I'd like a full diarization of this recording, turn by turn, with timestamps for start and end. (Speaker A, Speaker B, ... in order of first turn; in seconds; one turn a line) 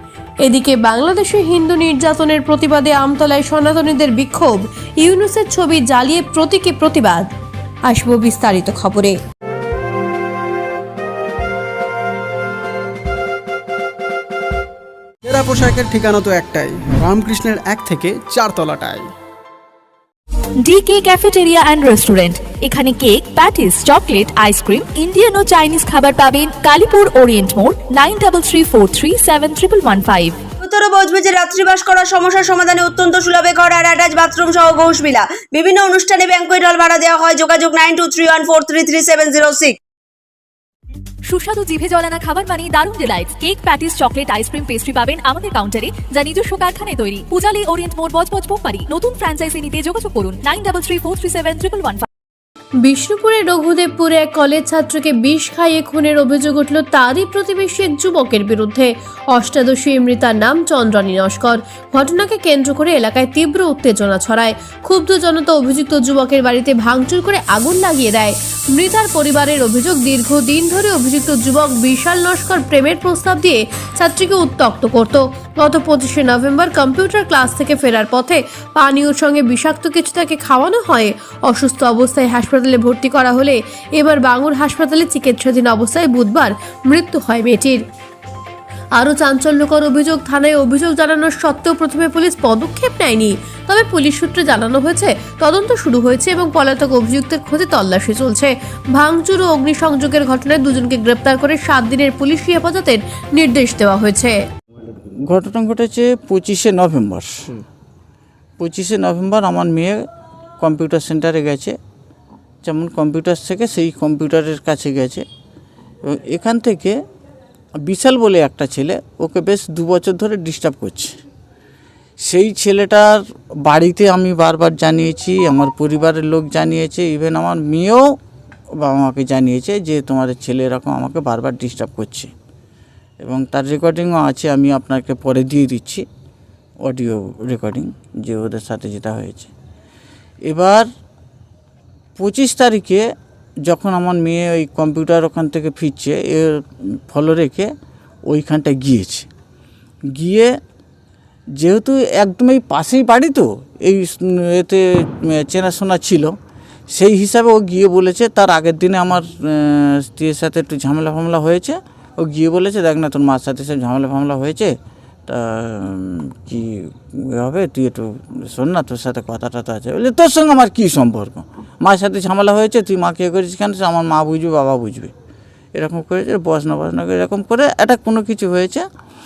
Speaker A: 0.4-7.3
Speaker A: 7.9-9.1
Speaker B: 15.2-19.1
Speaker C: 20.6-30.4
Speaker D: 30.6-39.8
Speaker C: 41.3-52.0
Speaker A: 52.8-87.8
Speaker A: 89.0-104.4
Speaker E: 105.3-107.5
Speaker E: 108.6-110.0
Speaker E: 110.6-111.8
Speaker E: 112.6-115.2
Speaker E: 116.0-117.0
Speaker E: 117.8-121.2
Speaker E: 122.2-128.1
Speaker E: 128.8-132.3
Speaker E: 133.2-136.0
Speaker E: 136.8-139.5
Speaker E: 140.5-140.9
Speaker E: 142.2-143.0
Speaker E: 143.6-147.7
Speaker E: 148.3-149.3
Speaker E: 150.2-150.5
Speaker E: 151.6-156.3
Speaker E: 156.9-164.7
Speaker E: 165.3-175.1
Speaker E: 175.7-178.8